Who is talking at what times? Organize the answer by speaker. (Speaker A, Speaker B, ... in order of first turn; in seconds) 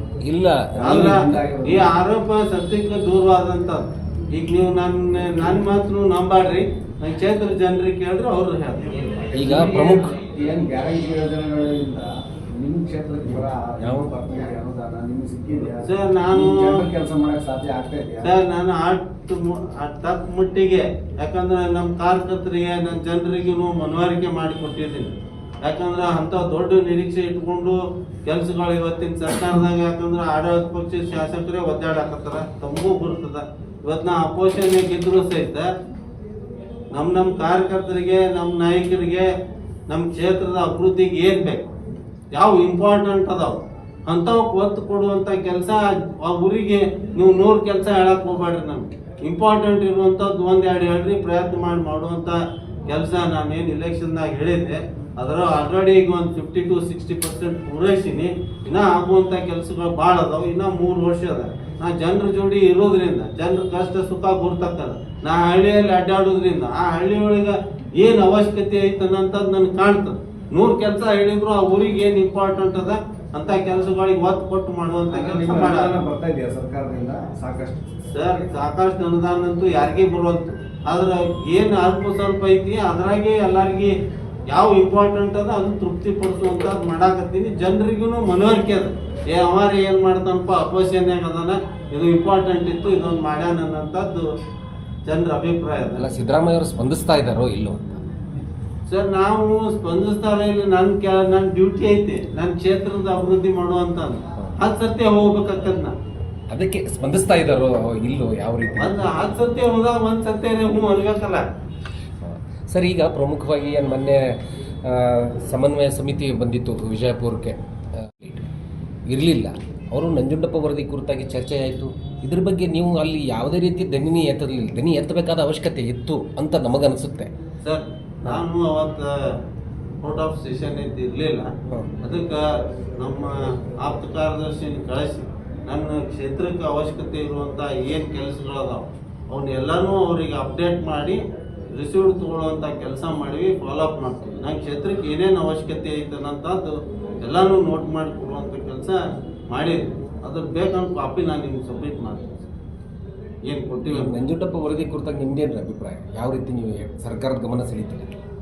Speaker A: 0.2-1.1, 9.3-10.1, 13.4-14.1, 96.0-98.0, 106.5-109.2, 112.2-118.5, 119.1-127.3, 153.9-158.1
Speaker B: 0.8-1.9, 8.9-18.4, 75.1-78.4
Speaker C: 0.8-9.0, 15.8-16.8, 18.2-25.1, 25.6-35.7, 36.9-39.3, 39.9-41.6, 42.3-75.9, 78.1-83.9, 84.5-94.3, 95.0-96.0, 98.9-105.9, 108.8-111.5, 127.6-129.4, 130.0-131.5, 132.0-141.2, 141.7-152.5, 153.4-154.1